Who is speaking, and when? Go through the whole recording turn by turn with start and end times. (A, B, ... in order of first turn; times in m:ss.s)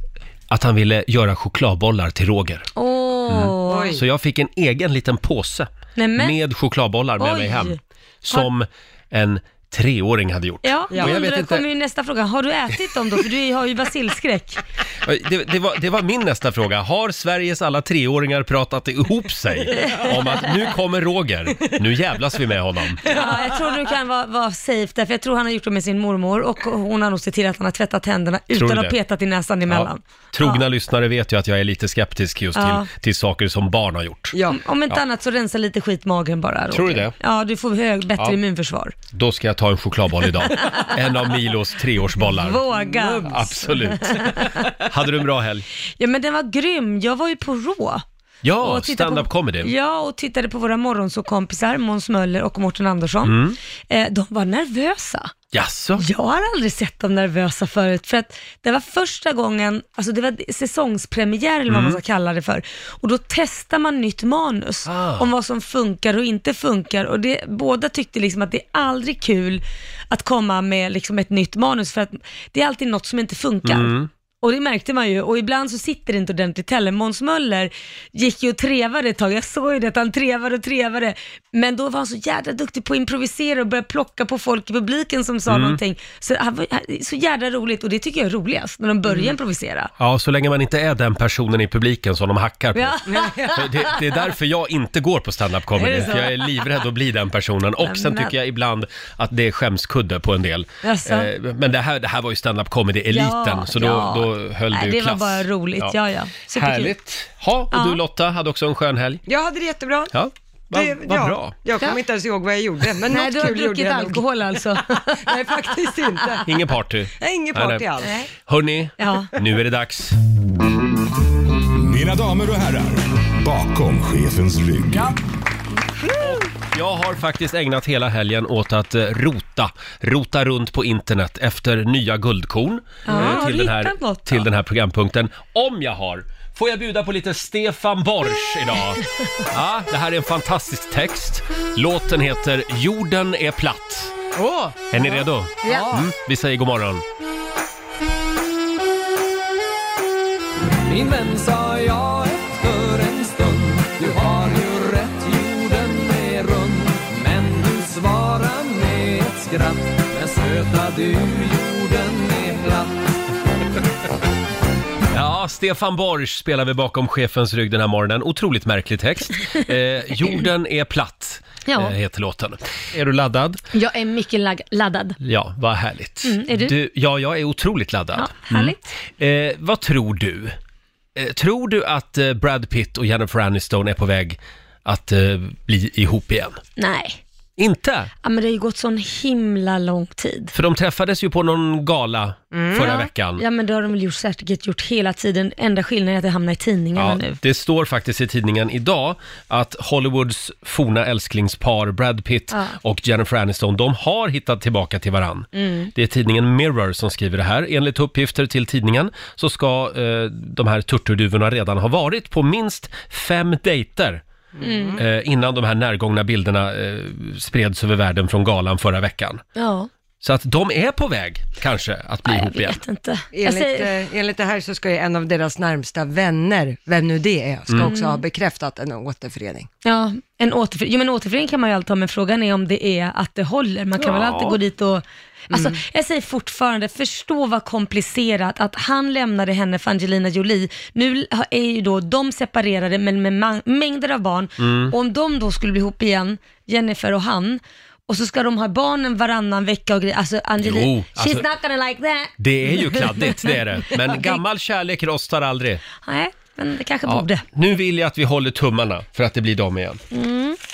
0:00.5-0:02.7 A
0:02.8-0:04.0 B
0:03.3-0:11.6 A
0:03.7-0:04.0 C
0:06.0-0:06.4 B
0:07.2-0:07.8 B
0:10.6-0:14.6 B
0:10.9-0:11.3 C
0:15.0-0:23.2 A
0:23.0-0:23.7 C
0:23.1-0:30.6 B
0:28.6-0:29.0 A
0:29.7-0:34.3 A
0:32.6-0:32.9 B
0:34.3-0:34.6 C
0:34.5-0:38.9 B
0:36.7-0:37.1 A
0:39.1-0:42.6 A
0:40.5-0:40.9 B
0:42.2-0:44.7 B
0:42.8-0:43.7 C
0:43.3-0:45.6 A
0:46.0-0:48.0 B
0:48.4-0:49.7 A
0:48.6-0:53.4 B
0:53.2-0:53.6 A
0:53.9-0:55.3 B
0:55.5-0:56.0 A
0:56.0-1:29.9 B
1:01.7-1:02.0 A
1:04.9-1:05.3 A
1:13.6-1:14.1 A
1:25.5-1:25.8 A
1:29.1-1:29.4 C
1:30.0-1:46.0 A
1:32.8-1:34.0 B
1:33.1-1:33.6 C
1:35.8-1:36.6 B
1:37.8-1:38.3 B
1:40.8-1:41.3 B
1:43.1-1:46.9 B
1:46.5-1:49.2 A
1:47.7-1:48.0 B
1:49.3-1:50.1 C
1:50.1-1:51.5 A
1:50.7-1:54.2 C
1:53.1-1:55.3 B
1:54.8-1:56.5 C
1:56.4-1:57.9 A
1:57.2-1:58.2 C
1:58.0-1:58.3 B
1:58.5-2:00.2 A
1:59.0-1:59.3 B
2:01.8-2:05.2 D
2:06.2-2:24.2 A
2:13.1-2:14.4 B
2:13.1-2:13.4 C
2:24.4-2:24.7 C
2:24.9-2:27.0 A
2:25.6-2:25.9 C
2:30.8-2:42.9 E
2:45.1-2:53.6 A
2:51.7-2:52.0 B
2:53.7-2:55.2 B
2:55.2-3:00.6 A
2:56.2-2:56.7 B
2:58.2-2:58.9 B
3:01.2-3:06.6 A
3:06.8-3:07.2 B
3:07.6-3:08.1 A
3:08.2-3:10.5 B
3:10.5-3:13.4 A
3:12.5-3:12.9 C
3:12.8-3:17.4 B
3:17.0-3:34.2 A
3:25.6-3:25.9 B
3:34.6-3:35.0 C
3:34.6-3:35.0 B
3:35.0-3:39.4 A
3:39.6-3:39.9 B
3:40.2-3:42.8 A
3:42.3-3:43.9 B
3:43.3-3:49.7 C
3:47.8-3:48.2 B
3:49.8-4:14.4 B
3:54.0-3:54.6 A
3:55.5-3:55.8 C
4:04.6-4:04.9 A
4:10.6-4:11.4 A
4:12.4-4:15.8 A
4:16.0-4:17.4 B
4:17.1-4:20.0 A
4:20.1-4:20.6 B